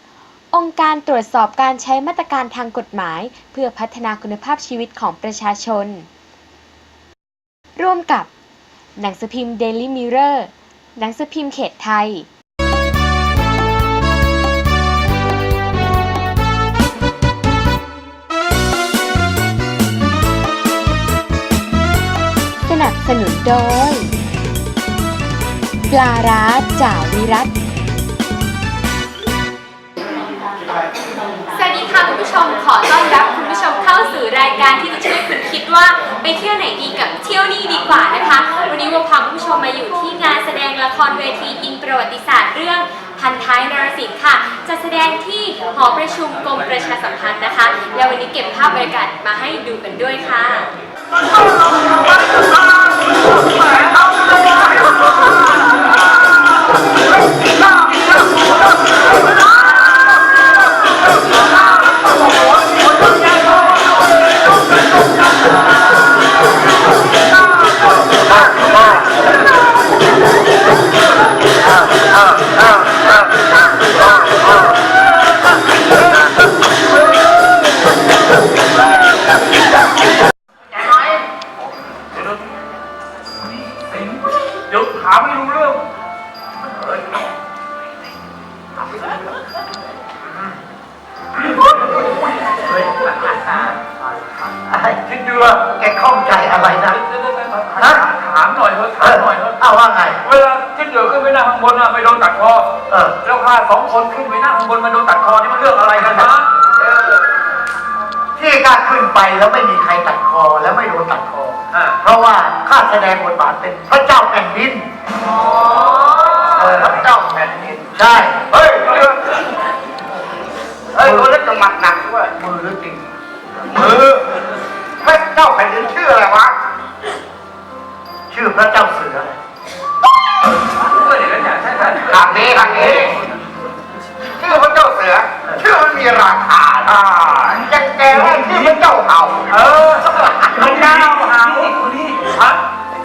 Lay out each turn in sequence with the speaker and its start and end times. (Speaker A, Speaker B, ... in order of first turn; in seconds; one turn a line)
Speaker A: 0.5-6.1
Speaker A: 7.8-8.3
Speaker A: 9.0-12.3
Speaker A: 22.7-24.1
Speaker A: 25.9-27.5
Speaker B: 31.5-50.7
Speaker C: 83.6-85.8
Speaker C: 91.9-93.7
Speaker C: 95.1-95.7
Speaker D: 95.7-97.0
Speaker C: 97.1-99.6
Speaker D: 97.8-98.0
Speaker D: 99.0-100.2
Speaker C: 100.2-102.7
Speaker C: 103.2-106.5
Speaker D: 106.8-107.2
Speaker D: 108.4-114.9
Speaker B: 115.2-116.8
Speaker D: 116.5-119.3
Speaker D: 121.0-123.0
Speaker D: 123.7-124.2
Speaker D: 125.0-126.5
Speaker D: 128.3-129.4
Speaker C: 131.0-133.1
Speaker D: 132.1-133.2
Speaker D: 134.4-139.4
Speaker C: 138.1-138.8
Speaker C: 139.5-142.6
Speaker D: 140.6-141.7